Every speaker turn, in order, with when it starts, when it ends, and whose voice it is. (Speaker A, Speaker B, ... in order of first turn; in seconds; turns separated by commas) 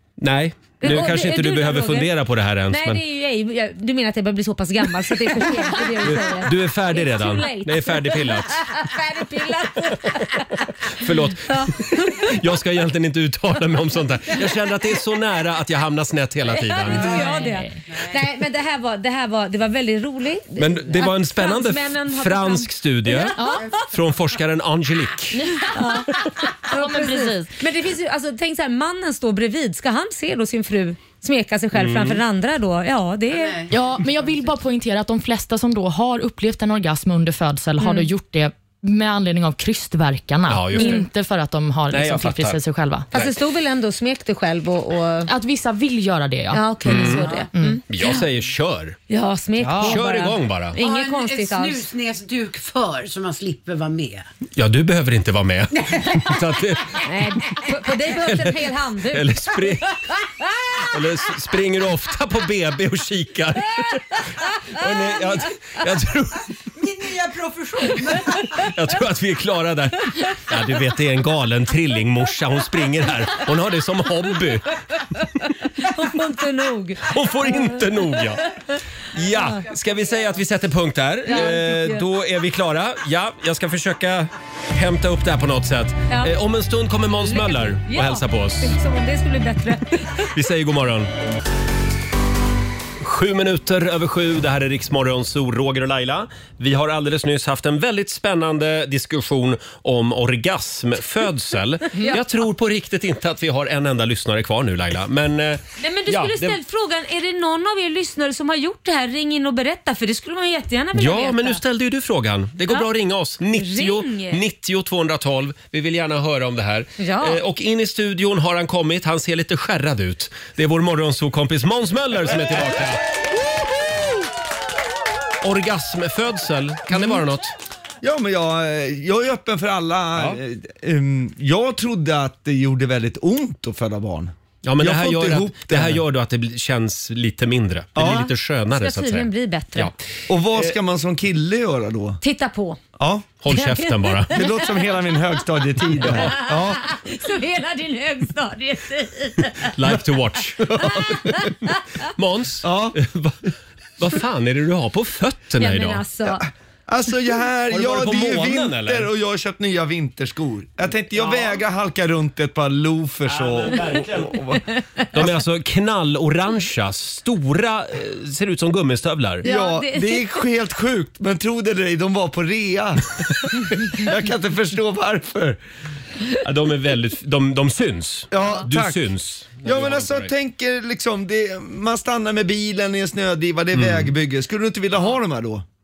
Speaker A: 0.2-3.0, Speaker B: 0.8-2.1, Speaker B: 2.7-10.9, Speaker A: 6.0-8.7, Speaker A: 10.9-17.2, Speaker B: 11.4-12.4, Speaker B: 16.5-23.9, Speaker C: 17.0-17.7, Speaker D: 17.9-18.1, Speaker A: 20.6-25.5, Speaker C: 23.4-23.6, Speaker C: 25.3-26.0, Speaker B: 25.7-33.6, Speaker C: 26.7-27.5, Speaker A: 31.7-32.2, Speaker D: 33.3-33.7, Speaker C: 33.7-43.1, Speaker B: 37.8-38.1, Speaker A: 40.5-41.0, Speaker B: 40.8-41.0, Speaker A: 41.9-42.6, Speaker B: 43.1-45.3, Speaker C: 45.3-47.8, Speaker B: 46.5-48.2, Speaker A: 46.8-47.3, Speaker D: 47.2-47.5, Speaker A: 47.9-49.0, Speaker B: 49.1-51.9, Speaker C: 49.6-50.0, Speaker A: 49.8-50.8, Speaker D: 50.8-54.3, Speaker A: 54.5-57.0, Speaker D: 55.8-56.3, Speaker B: 57.0-59.7, Speaker A: 58.2-58.5, Speaker A: 59.1-59.9, Speaker A: 60.9-66.5, Speaker D: 66.7-68.5, Speaker A: 68.5-74.7, Speaker B: 75.8-78.8, Speaker A: 77.1-78.5, Speaker A: 79.1-88.8, Speaker B: 81.3-82.0, Speaker B: 86.1-86.3, Speaker B: 87.2-90.3, Speaker A: 90.3-91.1, Speaker A: 93.0-106.6, Speaker B: 105.8-111.6, Speaker A: 110.9-123.0, Speaker B: 113.5-114.4, Speaker B: 117.0-117.4, Speaker E: 123.6-124.1, Speaker A: 125.4-127.5, Speaker E: 128.0-136.0, Speaker A: 134.6-140.0, Speaker E: 137.9-138.3, Speaker B: 138.7-139.9, Speaker E: 140.3-142.2, Speaker B: 142.2-142.8, Speaker E: 143.0-143.3, Speaker A: 143.4-144.4, Speaker B: 143.5-144.6, Speaker E: 144.3-146.8, Speaker B: 146.0-149.7, Speaker A: 146.0-146.4, Speaker A: 149.7-151.4, Speaker E: 150.6-151.5, Speaker A: 152.1-156.0, Speaker E: 152.6-153.0, Speaker B: 155.6-156.4, Speaker E: 156.3-164.6, Speaker A: 157.7-159.1, Speaker A: 161.2-161.5, Speaker A: 163.3-164.6, Speaker A: 165.1-169.5, Speaker B: 169.4-170.4, Speaker E: 169.4-175.6, Speaker A: 176.4-180.3, Speaker E: 178.3-179.1, Speaker E: 179.6-185.6, Speaker A: 183.7-184.1